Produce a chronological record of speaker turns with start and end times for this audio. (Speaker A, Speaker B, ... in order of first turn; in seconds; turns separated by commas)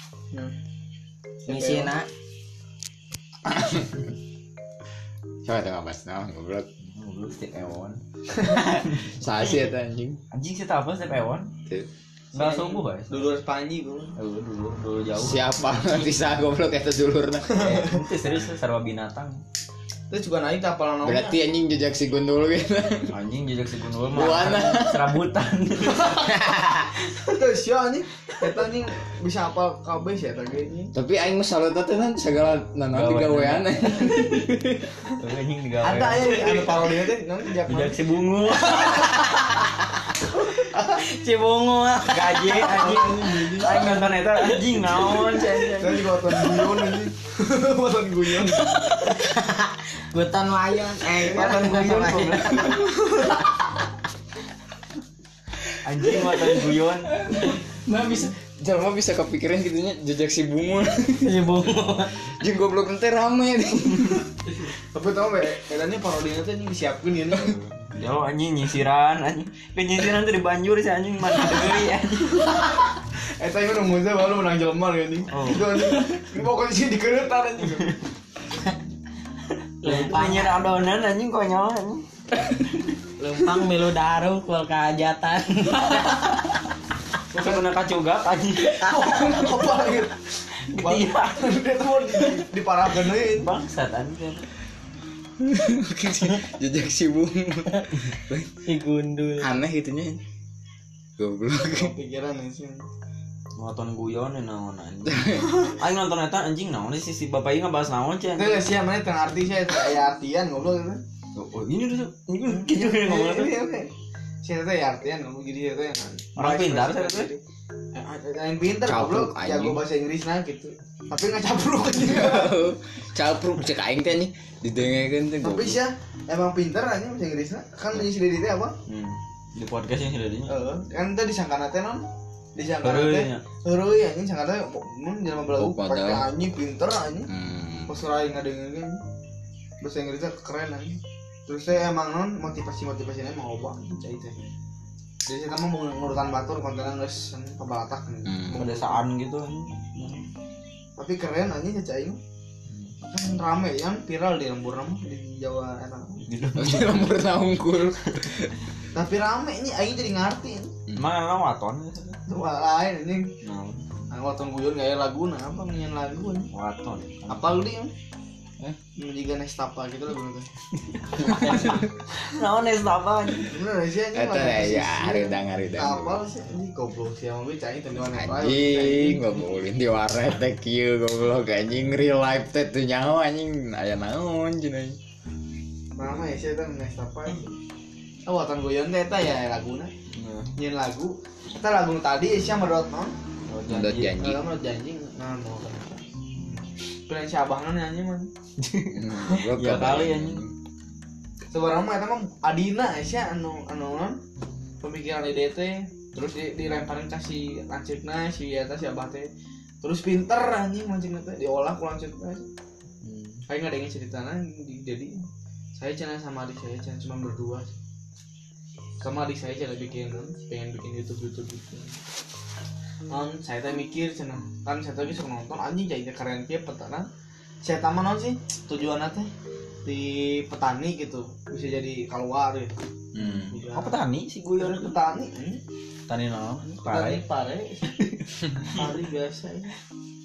Speaker A: 1.4-1.9, Speaker B: 1.4-2.1, Speaker C: 3.5-3.9, Speaker C: 5.4-6.7, Speaker D: 6.9-8.0, Speaker C: 8.4-10.2, Speaker D: 8.8-9.7, Speaker D: 10.3-11.5, Speaker A: 12.3-14.1, Speaker D: 12.3-13.3, Speaker D: 14.2-16.2, Speaker C: 15.1-17.6, Speaker A: 17.4-18.1, Speaker D: 17.6-19.4, Speaker A: 20.1-21.4, Speaker C: 21.0-23.1, Speaker D: 23.1-26.3, Speaker C: 24.1-25.1, Speaker C: 26.1-26.9, Speaker A: 27.1-30.9, Speaker C: 30.9-34.9, Speaker D: 32.9-34.2, Speaker D: 35.1-37.0, Speaker A: 35.8-38.0, Speaker D: 37.7-39.5, Speaker A: 40.5-41.0, Speaker B: 41.0-43.1, Speaker D: 42.1-46.5, Speaker A: 42.5-43.9, Speaker A: 44.9-48.8, Speaker B: 49.0-53.0, Speaker D: 51.1-53.0, Speaker D: 55.8-57.5, Speaker C: 57.9-61.6, Speaker B: 61.2-62.1, Speaker C: 62.2-64.3, Speaker A: 64.8-67.5, Speaker D: 67.3-72.5, Speaker A: 73.4-78.0, Speaker D: 75.3-76.2, Speaker B: 79.8-80.7, Speaker D: 79.8-82.6, Speaker B: 83.2-86.3, Speaker D: 87.3-88.9, Speaker A: 87.4-87.6, Speaker A: 88.7-90.2, Speaker B: 88.8-89.5, Speaker D: 90.7-91.6, Speaker A: 90.8-93.5, Speaker D: 93.0-94.5, Speaker C: 95.4-98.6, Speaker B: 98.6-99.5, Speaker C: 99.4-100.2, Speaker C: 101.2-101.9, Speaker A: 101.7-102.8, Speaker D: 103.5-108.7, Speaker C: 105.1-105.5, Speaker A: 108.3-111.0, Speaker D: 111.3-113.6, Speaker A: 112.5-113.9, Speaker A: 114.4-117.4, Speaker D: 116.3-117.3, Speaker A: 117.9-122.5, Speaker C: 118.8-119.8, Speaker C: 122.0-125.8, Speaker A: 125.4-128.7, Speaker D: 128.9-130.6, Speaker A: 130.5-137.3, Speaker D: 132.8-133.4, Speaker C: 135.5-136.3, Speaker C: 137.3-137.9, Speaker A: 137.9-139.0, Speaker A: 139.8-144.4, Speaker A: 145.2-149.1, Speaker C: 148.2-148.6, Speaker D: 148.5-150.3, Speaker A: 151.0-152.2, Speaker D: 152.7-152.9, Speaker A: 153.1-156.2, Speaker D: 156.3-157.2, Speaker C: 156.6-158.5, Speaker A: 158.9-160.7, Speaker D: 160.9-162.2, Speaker A: 162.3-163.3, Speaker D: 163.4-163.8, Speaker A: 164.1-166.5, Speaker D: 166.5-167.6, Speaker A: 167.3-167.9, Speaker A: 169.0-170.5, Speaker D: 170.9-173.5, Speaker C: 171.2-171.8, Speaker A: 173.5-179.2, Speaker C: 174.1-176.2, Speaker C: 178.0-185.0, Speaker A: 185.9-187.5, Speaker A: 188.2-189.9, Speaker D: 190.1-190.6, Speaker A: 190.6-193.1, Speaker D: 193.5-194.1, Speaker C: 193.7-194.4, Speaker A: 194.2-198.3, Speaker D: 198.6-200.4, Speaker C: 198.9-200.5, Speaker A: 201.5-204.2, Speaker A: 204.8-209.3, Speaker A: 209.8-212.5, Speaker D: 213.0-213.4, Speaker A: 213.5-215.1, Speaker A: 215.7-217.8, Speaker A: 219.0-222.0, Speaker A: 223.1-227.1, Speaker A: 227.6-229.3, Speaker A: 229.8-232.8, Speaker C: 233.1-233.6, Speaker A: 233.5-234.0, Speaker D: 233.7-234.9, Speaker A: 234.6-235.6, Speaker D: 236.1-237.2, Speaker A: 236.8-237.9, Speaker D: 237.9-238.9, Speaker A: 238.7-239.7